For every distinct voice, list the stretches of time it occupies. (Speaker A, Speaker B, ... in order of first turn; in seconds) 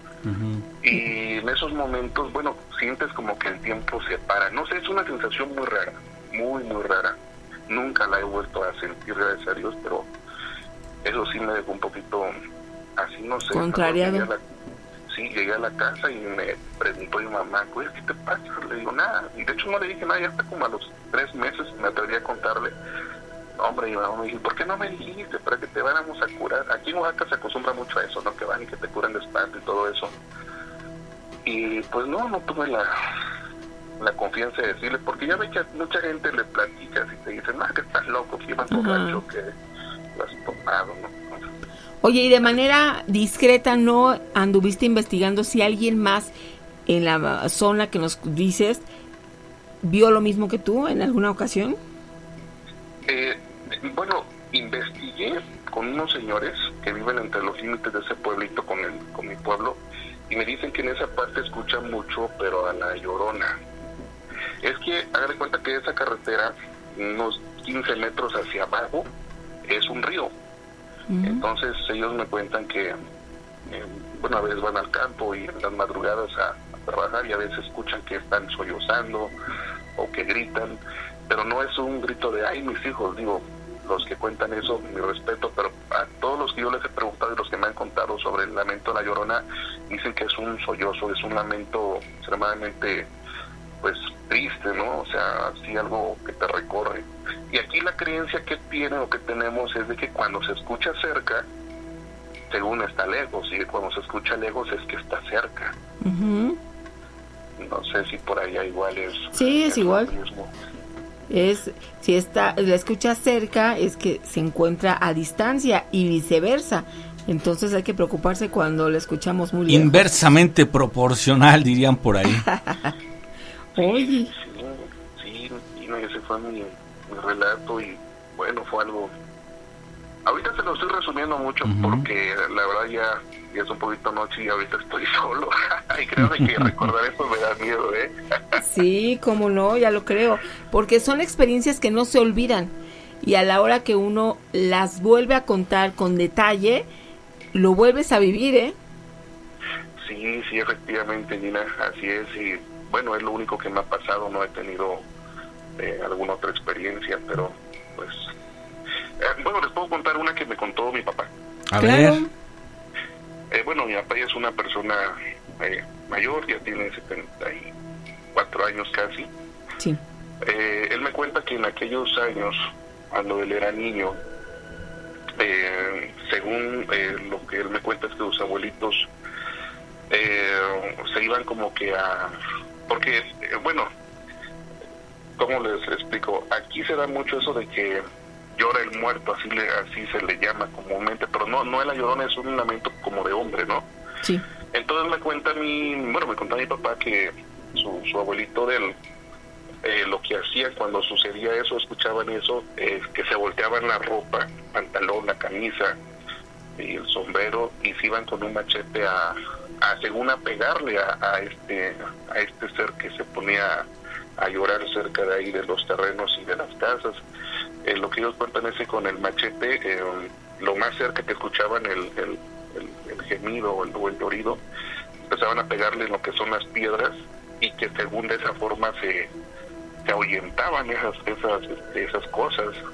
Speaker A: 0.2-0.7, 119.7-122.5, 131.6-132.1, 136.2-136.9, 161.7-162.2
Speaker B: 0.8-7.2, 7.7-10.1, 11.0-12.3, 13.0-14.4, 15.1-22.7, 23.6-30.1, 31.4-32.9, 34.0-39.5, 40.1-41.4, 53.1-63.6, 64.6-69.1, 69.7-70.3, 71.2-73.0, 73.7-79.3, 80.0-93.1, 93.8-101.5, 102.5-105.7, 107.6-110.5, 123.8-129.1, 130.2-138.1, 150.0-155.1, 155.8-158.2, 159.2-161.3, 163.5-167.7, 168.3-169.3, 170.4-172.6, 173.1-174.2, 175.4-179.1, 180.1-182.4, 182.9-183.9, 185.4-193.8, 194.7-198.9, 199.8-206.0, 206.8-213.9, 214.4-217.2, 217.8-224.6, 225.2-229.3, 230.0-232.8
Speaker C: 13.5-14.3, 38.7-39.2, 42.0-46.3, 46.9-48.8, 49.8-51.8, 71.1-71.4, 106.0-106.6, 109.3-110.1, 111.3-120.1, 122.3-122.9, 123.8-124.3, 138.6-146.9, 147.5-148.8, 161.8-162.3